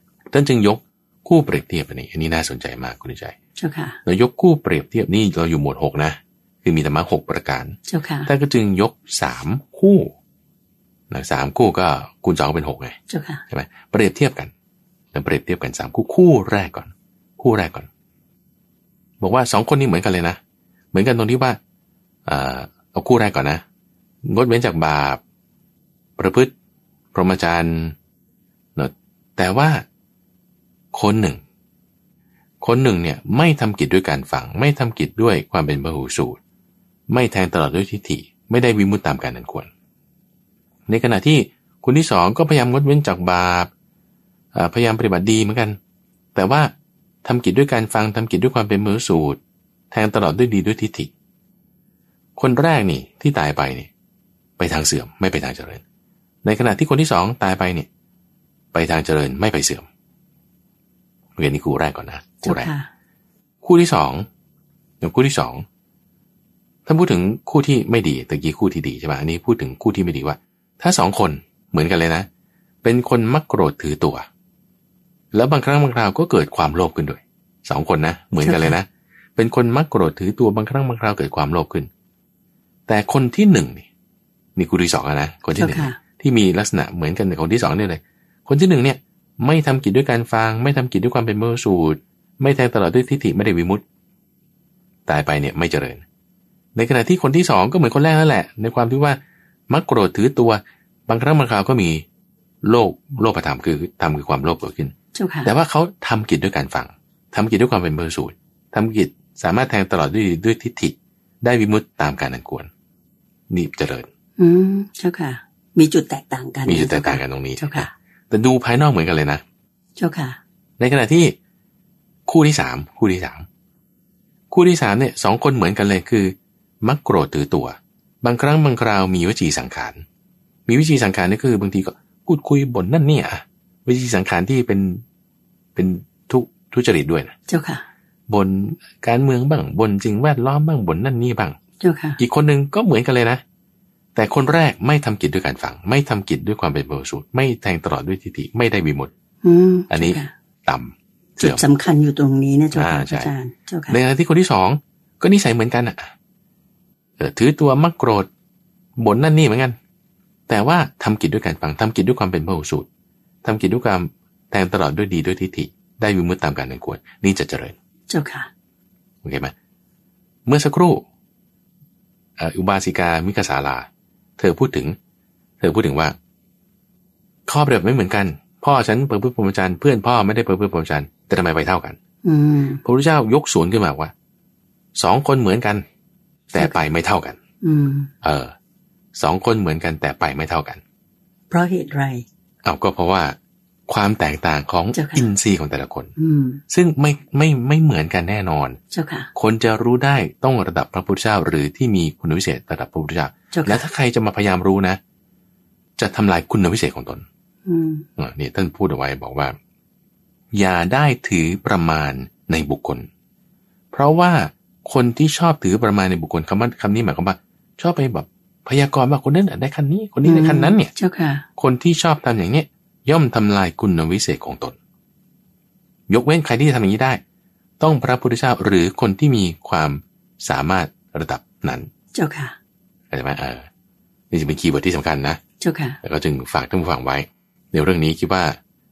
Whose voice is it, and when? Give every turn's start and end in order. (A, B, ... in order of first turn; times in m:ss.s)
0:00.3-0:03.4 A
0:03.6-0:04.0 B
0:04.0-0:10.1 A
0:07.9-0:08.3 B
0:11.1-0:13.0 A
0:13.1-0:13.4 B
0:13.5-0:14.5 A
0:15.1-0:17.9 A
0:19.2-0:20.4 A
0:20.9-0:21.6 A
0:22.2-0:23.6 A
0:24.2-0:25.2 A
0:26.2-0:26.5 A
0:27.1-0:28.0 A
0:28.8-0:29.8 A
0:30.9-0:31.4 A
0:32.6-0:36.4 A
0:37.1-0:39.7 A
0:40.9-0:43.7 A
0:44.5-0:45.8 A
0:46.4-0:46.7 A
0:47.2-0:49.4 A
0:49.9-0:51.1 A
0:52.4-0:53.9 A
0:54.6-0:55.8 A
0:56.4-0:57.9 A
0:58.7-0:59.9 A
1:01.4-1:02.7 A
1:02.4-1:02.9 B
1:03.6-1:04.3 A
1:05.0-1:05.6 A
1:06.9-1:12.3 A
1:12.8-1:14.3 A
1:15.3-1:21.9 A
1:18.4-1:18.8 B
1:22.9-1:23.9 A
1:24.6-1:33.8 A
1:25.6-1:26.0 B
1:35.1-1:36.0 A
1:36.8-1:42.0 A
1:42.6-1:44.9 A
1:45.2-1:45.5 B
1:45.4-1:52.7 A
1:53.5-1:54.1 A
1:54.4-1:57.9 B
1:56.7-1:59.4 A
2:00.0-2:00.4 B
2:00.8-2:01.4 A
2:02.3-2:03.5 A
2:04.5-2:10.0 A
2:10.7-2:15.0 A
2:15.8-2:17.3 A
2:17.5-2:17.8 B
2:18.3-2:21.6 A
2:21.8-2:22.2 B
2:22.2-2:23.4 A
2:24.2-2:29.1 A
2:29.4-2:30.3 B
2:29.9-2:31.6 A
2:31.4-2:34.0 B
2:32.7-2:33.3 A
2:33.9-2:36.1 A
2:37.2-2:38.3 A
2:39.0-2:39.8 A
2:40.5-2:42.9 A
2:43.4-2:47.8 A
2:48.1-2:48.5 B
2:49.2-2:49.5 A
2:50.5-2:51.0 A
2:52.4-2:55.0 A
2:55.6-2:56.2 A
2:57.5-3:02.0 A
3:02.2-3:02.8 B
3:02.8-3:04.1 A
3:05.0-3:05.8 A
3:06.5-3:07.4 A
3:07.6-3:08.1 B
3:08.2-3:08.5 A
3:09.2-3:10.8 A
3:11.5-3:12.2 B
3:12.6-3:13.4 A
3:13.9-3:16.1 A
3:14.9-3:15.3 B
3:16.2-3:16.6 B
3:16.7-3:18.8 A
3:18.9-3:19.3 B
3:19.4-3:25.0 A
3:23.5-3:23.8 B
3:26.0-3:27.2 A
3:27.7-3:28.1 B
3:28.2-3:29.6 A
3:30.5-3:33.1 A
3:33.9-3:40.9 A
3:40.2-3:41.4 B
3:41.6-3:44.8 A
3:46.1-3:47.2 A
3:47.8-3:51.9 A
3:52.1-3:52.6 B
3:53.1-3:53.7 A
3:54.3-3:55.4 A
3:55.6-3:56.0 B
3:56.0-3:58.6 A